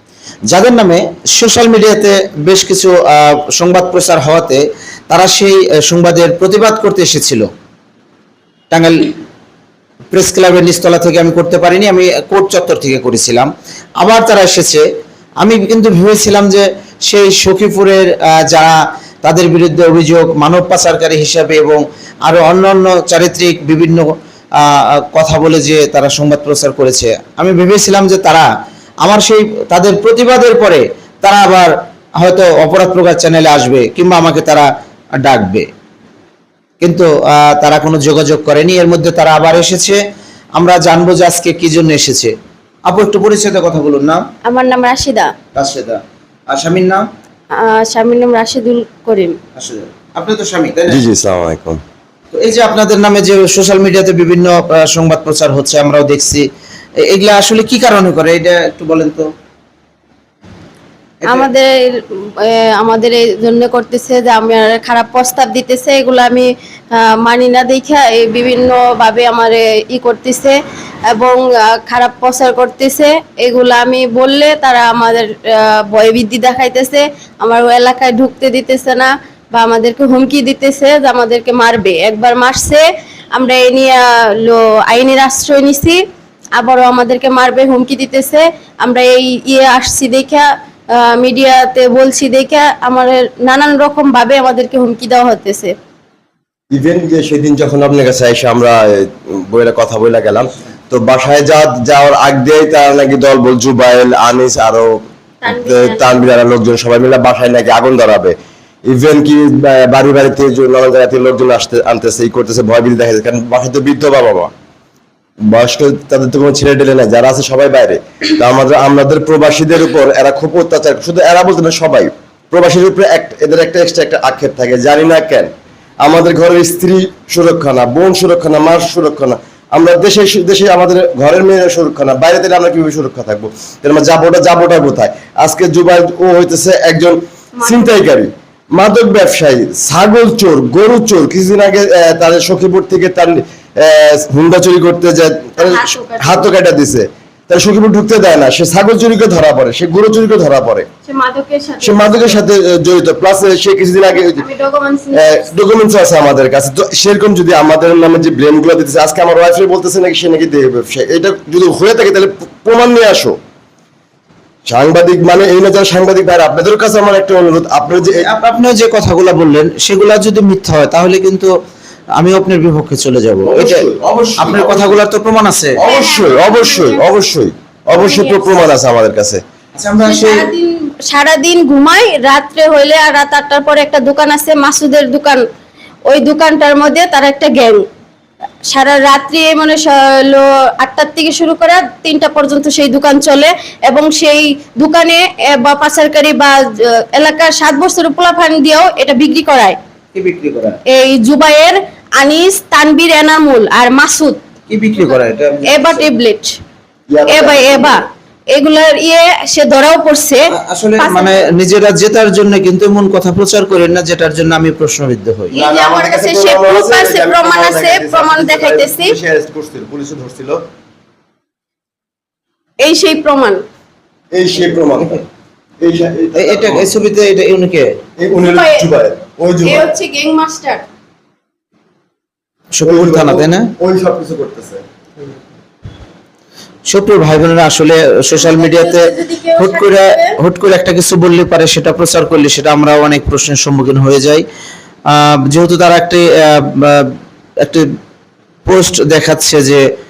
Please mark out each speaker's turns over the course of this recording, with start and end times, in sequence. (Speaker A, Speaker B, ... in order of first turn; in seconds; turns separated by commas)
Speaker A: 0.5-7.5, Speaker A: 8.7-9.2, Speaker A: 10.1-14.8, Speaker A: 15.4-28.5, Speaker A: 29.0-35.7, Speaker A: 36.8-40.0, Speaker A: 40.6-42.3, Speaker A: 42.9-44.2, Speaker B: 44.4-45.3, Speaker A: 45.5-47.1, Speaker B: 47.5-49.4, Speaker A: 49.5-51.0, Speaker C: 50.9-51.8, Speaker A: 52.3-56.4, Speaker A: 57.0-59.3, Speaker A: 61.2-61.5, Speaker B: 61.2-70.6, Speaker B: 71.1-86.0, Speaker B: 86.5-95.7, Speaker C: 96.7-114.5, Speaker B: 105.4-106.3, Speaker C: 115.5-150.9, Speaker B: 137.6-137.9, Speaker B: 145.6-146.5, Speaker B: 151.1-152.4, Speaker C: 151.8-154.4, Speaker B: 154.1-155.5, Speaker C: 155.1-163.4, Speaker C: 164.7-168.3, Speaker A: 168.0-171.5, Speaker A: 172.2-173.8, Speaker C: 173.4-175.0, Speaker A: 174.4-175.8, Speaker C: 175.8-179.4, Speaker B: 175.8-177.1, Speaker B: 177.9-178.5, Speaker A: 179.8-180.5, Speaker B: 180.0-185.4, Speaker B: 186.1-187.8, Speaker B: 188.7-199.8, Speaker A: 200.1-200.8, Speaker B: 200.9-204.4, Speaker A: 204.7-206.1, Speaker B: 205.0-206.6, Speaker C: 207.1-208.0, Speaker B: 207.3-210.4, Speaker A: 210.5-215.6, Speaker B: 211.0-211.5, Speaker B: 215.5-219.1, Speaker C: 215.5-220.6, Speaker B: 222.8-223.6, Speaker C: 224.3-225.2, Speaker A: 225.0-225.2, Speaker C: 225.8-226.9, Speaker A: 226.3-227.9, Speaker C: 228.2-229.9, Speaker B: 228.4-228.9, Speaker B: 229.6-230.8, Speaker A: 232.7-233.7, Speaker C: 232.8-234.8, Speaker A: 236.9-244.4, Speaker B: 238.3-240.4, Speaker A: 245.1-247.9, Speaker A: 248.7-249.8